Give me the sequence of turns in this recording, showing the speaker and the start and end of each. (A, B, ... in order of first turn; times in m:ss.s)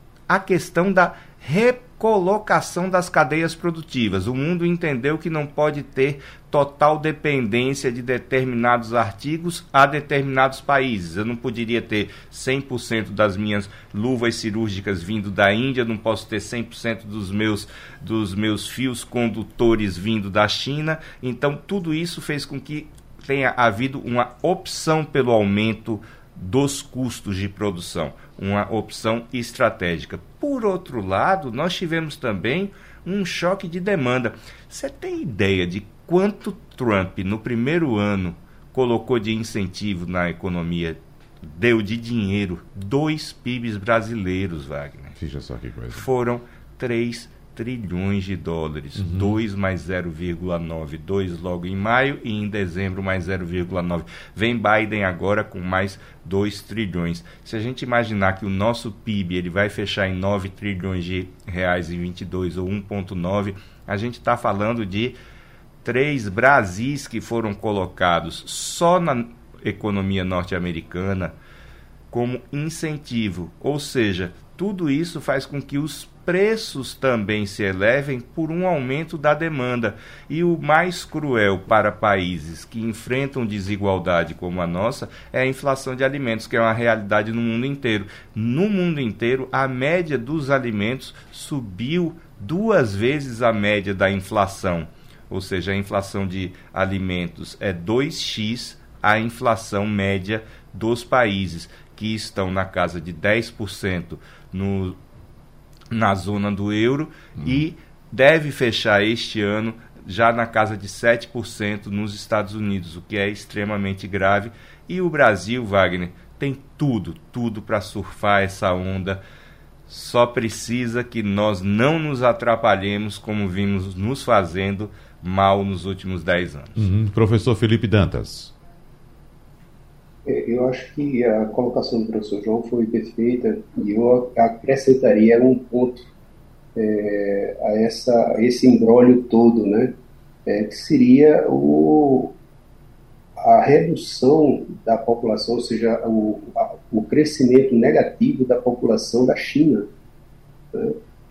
0:00.3-0:45.2 A
0:45.2-0:46.0 B
0:45.9-1:05.2 A
0:49.0-0:49.4 B
1:05.8-1:11.4 A
1:12.1-1:45.0 A
1:45.9-1:59.2 A
1:59.9-2:06.9 A
2:06.8-2:08.5 B
2:10.2-2:16.1 C
2:16.7-2:19.9 C
2:20.4-2:22.3 C
2:23.4-2:29.9 C